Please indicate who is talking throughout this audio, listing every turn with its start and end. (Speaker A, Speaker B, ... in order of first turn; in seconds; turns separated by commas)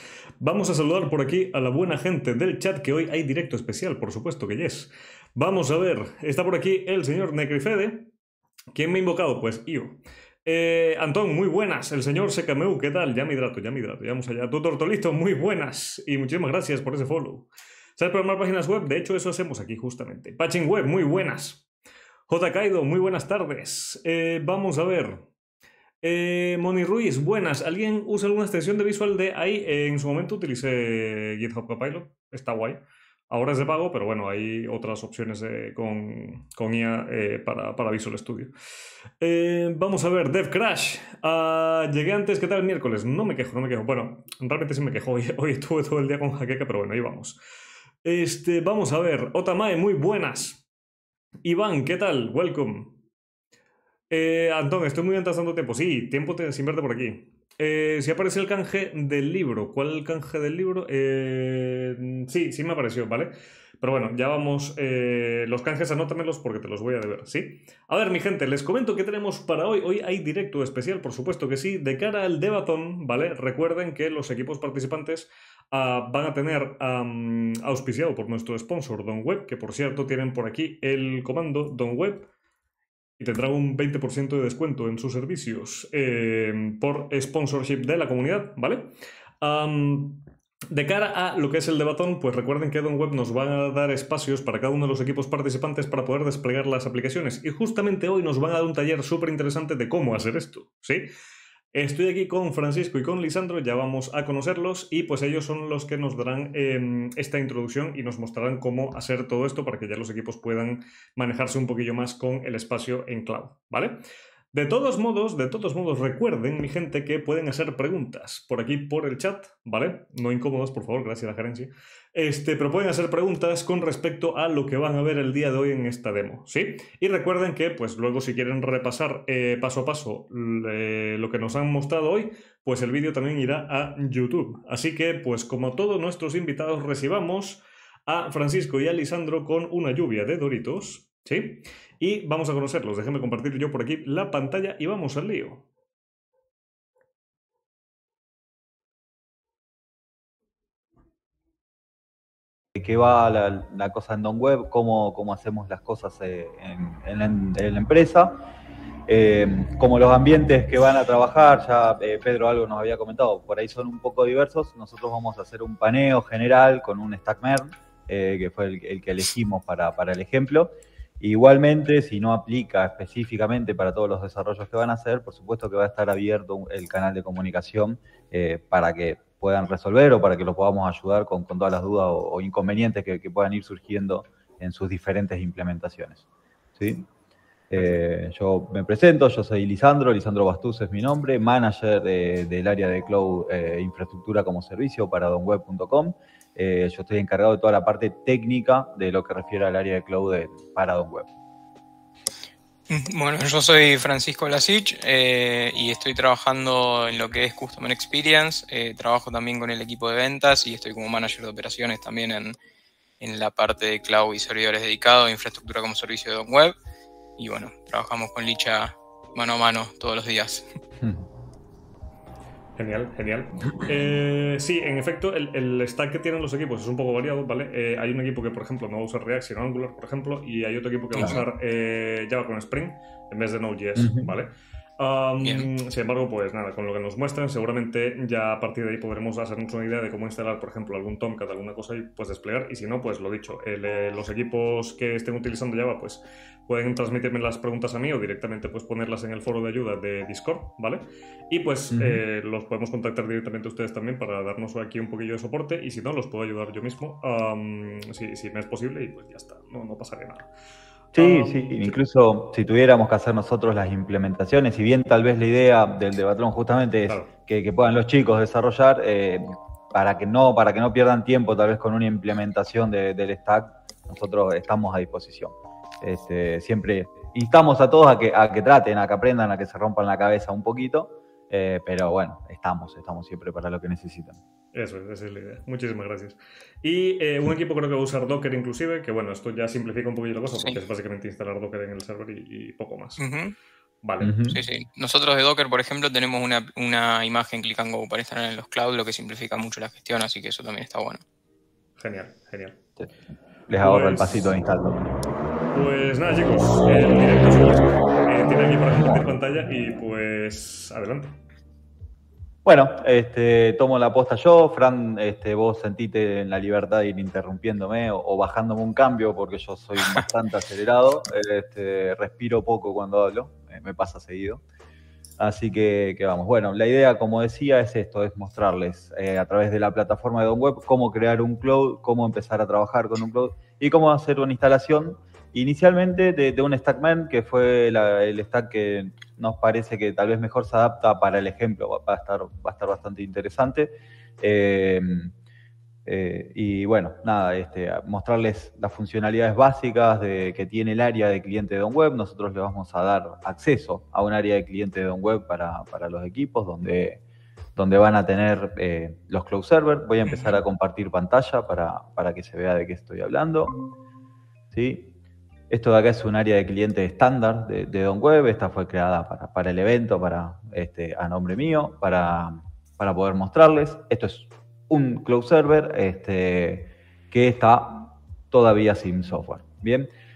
Speaker A: 0.4-8.1, Speaker A: 8.7-21.6, Speaker A: 22.3-25.2, Speaker A: 26.0-38.5, Speaker A: 39.2-47.4, Speaker A: 48.0-50.6, Speaker A: 51.4-53.0, Speaker A: 54.1-82.3, Speaker A: 83.2-101.1, Speaker A: 101.7-114.0, Speaker A: 114.5-145.6, Speaker B: 152.7-158.4, Speaker B: 159.1-186.2, Speaker B: 186.8-187.1, Speaker B: 187.7-201.3, Speaker C: 202.9-212.6, Speaker C: 213.2-216.7, Speaker C: 217.4-220.6, Speaker A: 222.8-260.5, Speaker B: 234.0-234.3, Speaker C: 235.4-235.7, Speaker B: 251.9-252.2, Speaker A: 261.1-261.9, Speaker B: 261.1-284.4, Speaker A: 284.7-293.2, Speaker C: 293.2-293.5, Speaker A: 294.0-294.4, Speaker B: 294.2-294.6, Speaker C: 294.5-301.2, Speaker A: 302.0-302.8, Speaker B: 303.7-305.0, Speaker A: 303.8-304.5, Speaker A: 305.7-311.4, Speaker B: 312.6-324.6, Speaker B: 325.4-345.3, Speaker B: 346.0-357.2, Speaker B: 357.8-363.8, Speaker B: 364.7-365.1, Speaker B: 365.7-380.1